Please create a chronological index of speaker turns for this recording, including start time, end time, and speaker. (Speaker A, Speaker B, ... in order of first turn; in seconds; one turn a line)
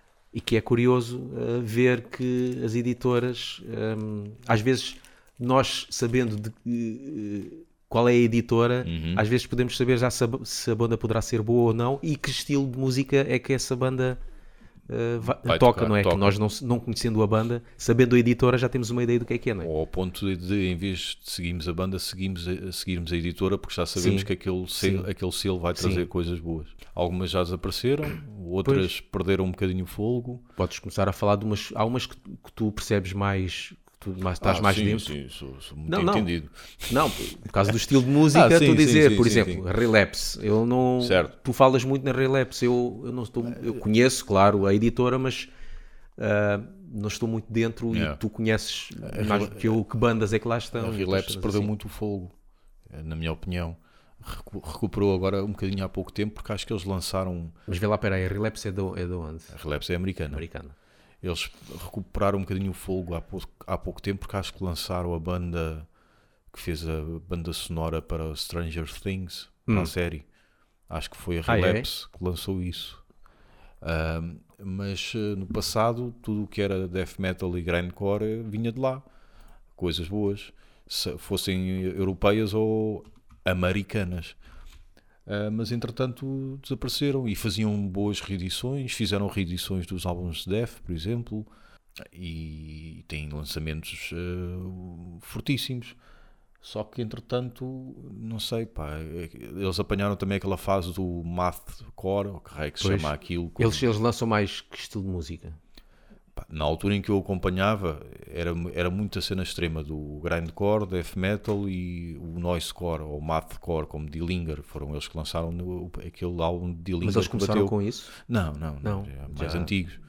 Speaker A: 0.3-14.2
Speaker B: 8.8-9.2
Speaker A: 14.9-19.7
Speaker B: 15.2-16.3
Speaker B: 19.6-30.4
Speaker A: 23.9-25.1
Speaker A: 25.8-26.1
Speaker A: 28.6-28.9
Speaker A: 30.6-35.1
Speaker B: 34.4-39.6
Speaker A: 35.9-36.3
Speaker A: 36.9-45.5
Speaker B: 41.0-41.3
Speaker A: 46.2-51.7
Speaker B: 47.9-48.2
Speaker B: 49.0-49.8
Speaker B: 50.7-52.3
Speaker B: 52.9-57.5
Speaker A: 57.7-59.5
Speaker B: 59.5-60.4
Speaker A: 60.3-60.7
Speaker B: 61.2-65.9
Speaker B: 66.5-70.2
Speaker A: 69.7-69.9
Speaker B: 70.9-73.0
Speaker A: 71.5-71.9
Speaker B: 73.8-79.1
Speaker B: 79.7-84.4
Speaker B: 85.2-91.5
Speaker B: 92.1-96.0
Speaker B: 96.6-103.8
Speaker A: 102.8-105.6
Speaker B: 106.3-120.0
Speaker A: 117.0-118.2
Speaker A: 118.8-119.8